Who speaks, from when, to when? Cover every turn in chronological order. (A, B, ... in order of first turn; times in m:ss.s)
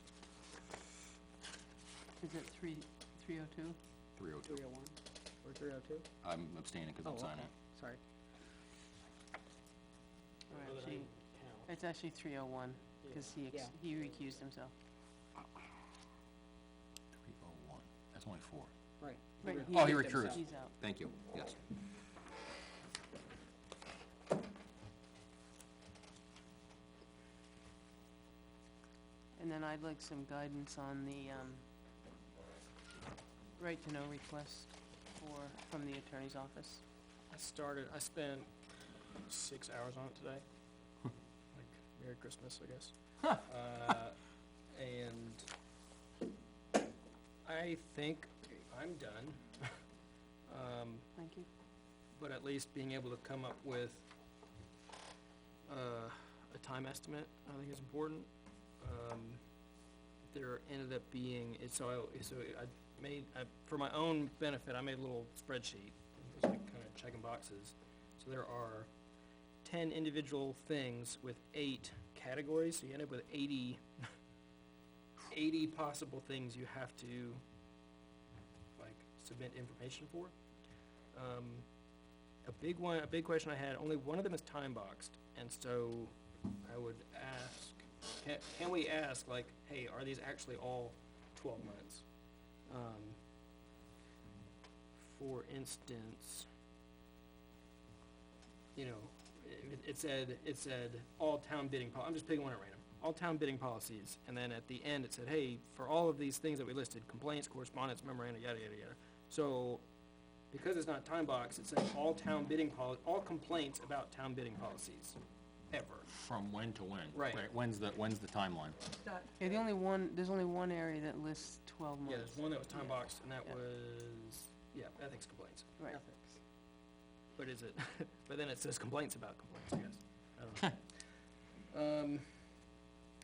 0:02.2-0:03.8 A
0:04.2-0:04.6 B
0:04.5-0:06.0 C
0:06.2-0:07.5 B
0:07.0-0:08.0 C
0:10.5-0:11.1 A
0:10.5-0:11.7 D
0:11.7-0:14.7 A
0:17.2-0:18.7 B
0:19.0-0:20.4 C
0:19.4-0:20.8 A
0:19.7-0:21.6 B
0:29.4-0:31.6 A
0:33.6-0:36.8 A
0:37.3-0:38.5 D
0:39.2-0:40.4 D
0:41.5-0:44.2 D
0:44.7-0:45.5 D
0:47.4-0:49.7 D
0:50.5-0:51.1 D
0:51.2-0:51.5 A
0:52.1-0:54.1 D
0:55.7-0:58.3 D
0:58.8-0:59.4 D
1:00.3-1:08.9 D
1:09.6-1:14.1 D
1:15.3-1:17.4 D
1:18.8-1:20.3 D
1:21.1-1:21.6 D
1:22.4-1:32.0 D
1:32.6-1:33.2 D
1:34.9-1:36.5 D
1:38.7-1:49.8 D
1:50.5-1:55.2 D
1:55.7-1:56.1 D
1:56.2-1:58.8 B
1:57.1-1:57.5 D
1:59.1-1:59.4 C
1:59.4-2:03.5 A
2:02.0-2:05.7 D
2:05.9-2:06.4 C
2:07.4-2:12.4 D